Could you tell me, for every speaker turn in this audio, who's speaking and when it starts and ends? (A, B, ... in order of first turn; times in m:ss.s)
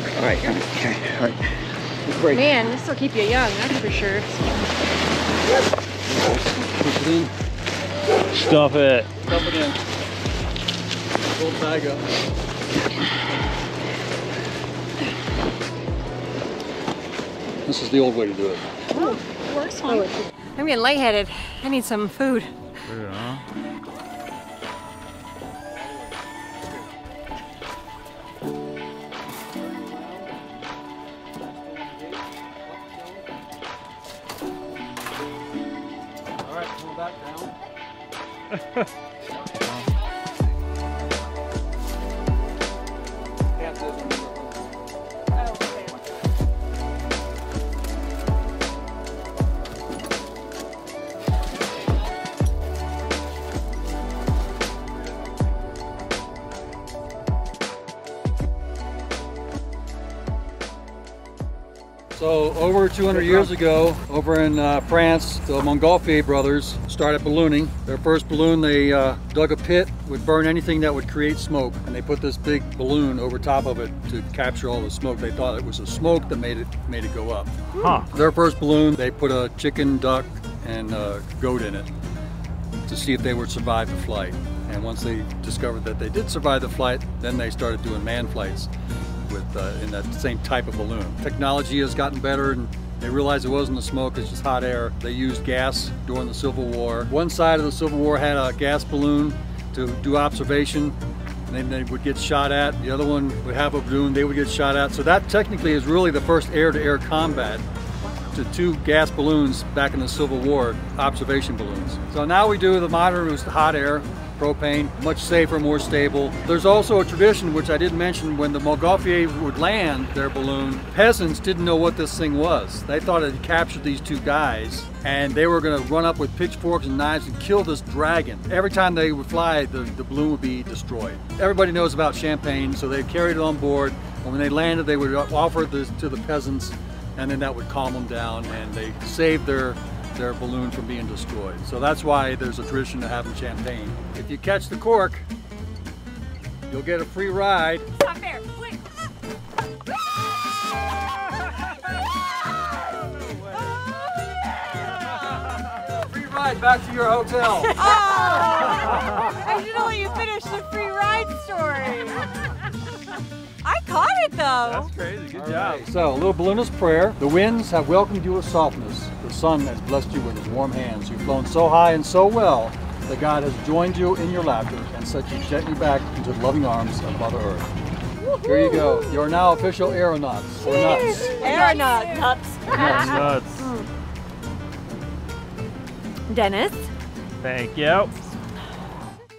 0:02.1-0:02.4 A
0:02.3-0:04.6 B
0:06.2-0:07.3 A
0:08.3-0:09.1 C
0:09.2-0:09.8 A
0:11.3-0:12.0 A
0:17.6-0:18.6 A
0:18.9-0:22.5 B
0:22.9-0:23.4 C
0:25.8-0:26.7 A
0:29.3-0:30.4 A
0:31.4-0:33.3 A
0:36.4-0:37.5 A
0:43.6-0:44.7 A
1:02.1-1:21.9 A
1:03.1-1:03.5 C
1:17.8-1:18.1 C
1:22.8-1:28.7 A
1:29.3-1:41.0 A
1:41.5-1:47.6 A
1:48.3-2:25.3 A
2:26.7-2:27.9 A
2:28.0-2:28.8 B
2:35.9-2:37.8 A
2:37.8-2:42.5 B
2:43.6-2:44.9 B
2:44.6-2:45.9 C
2:45.3-2:57.7 A
2:58.2-2:59.2 B
2:58.4-3:01.5 A
3:00.6-3:03.9 B
3:02.7-3:03.3 A
3:02.9-3:03.7 C
3:06.3-3:06.9 B
3:07.4-3:08.1 C